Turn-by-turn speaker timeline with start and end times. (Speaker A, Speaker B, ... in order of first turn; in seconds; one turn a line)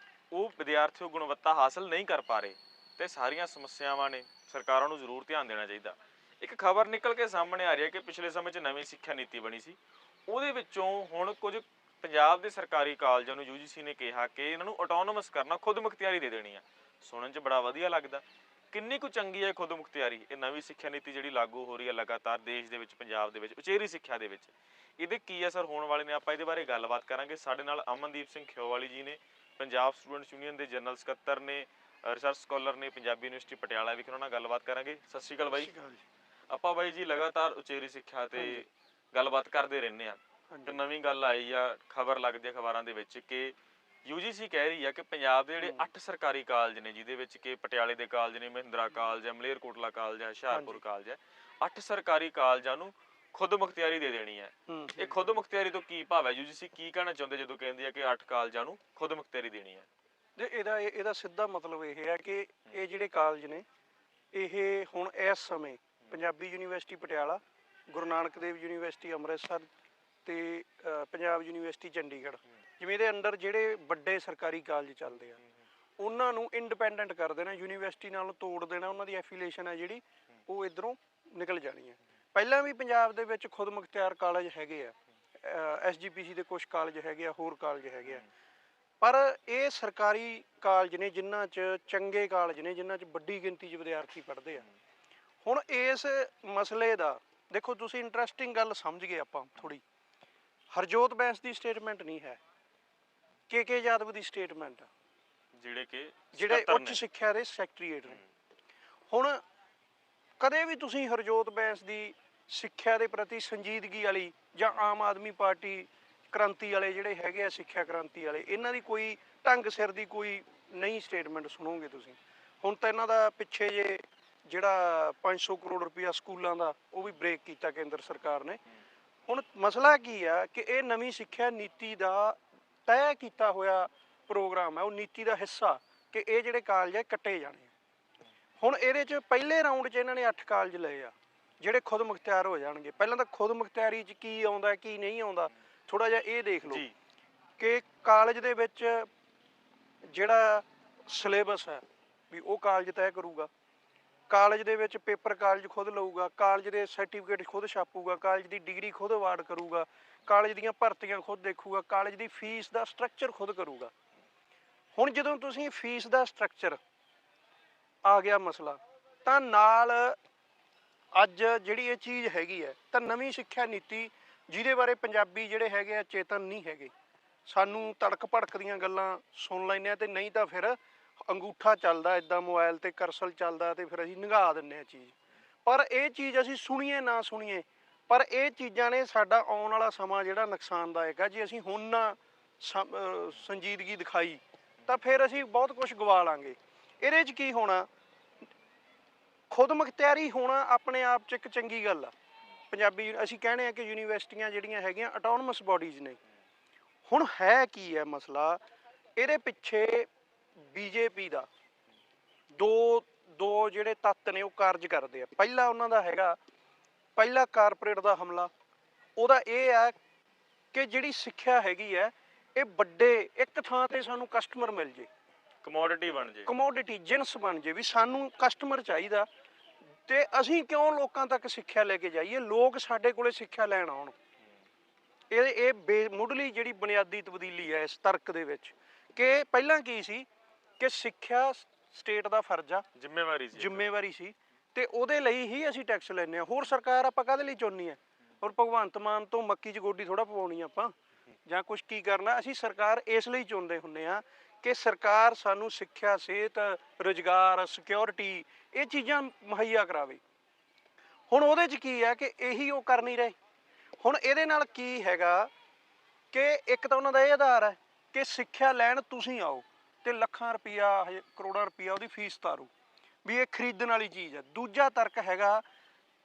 Speaker A: 0.3-35.7
Speaker B: 35.4-36.0
Speaker A: 36.5-59.9
Speaker B: 40.5-40.8
Speaker B: 45.6-45.9
Speaker B: 50.5-50.8
Speaker B: 54.7-55.3
Speaker B: 60.4-63.6
Speaker B: 64.3-69.7
Speaker B: 70.2-75.4
Speaker B: 76.0-88.2
Speaker B: 89.0-94.7
Speaker B: 95.4-99.8
Speaker B: 100.7-102.4
Speaker B: 103.5-104.9
Speaker A: 105.5-107.0
Speaker B: 106.3-108.2
Speaker B: 109.1-109.4
Speaker B: 110.4-128.6
Speaker B: 129.3-137.7
Speaker B: 138.6-146.8
Speaker A: 146.7-146.9
Speaker B: 147.6-149.1
Speaker B: 150.1-153.5
Speaker B: 154.3-163.9
Speaker B: 164.9-166.8
Speaker B: 168.0-170.2
Speaker B: 171.1-176.9
Speaker B: 177.5-197.9
Speaker B: 199.5-202.1
Speaker B: 202.7-206.2
Speaker B: 207.1-208.6
Speaker B: 209.2-211.5
Speaker B: 212.6-216.4
Speaker B: 217.2-218.5
Speaker B: 219.2-219.9
Speaker B: 220.7-225.1
Speaker A: 225.6-226.5
Speaker B: 226.4-229.3
Speaker B: 230.1-234.1
Speaker B: 235.3-240.2
Speaker B: 240.8-242.8
Speaker A: 242.9-243.8
Speaker B: 243.5-250.9
Speaker B: 251.4-260.2
Speaker B: 261.3-263.3
Speaker B: 264.0-265.5
Speaker B: 266.3-272.7
Speaker B: 273.2-275.6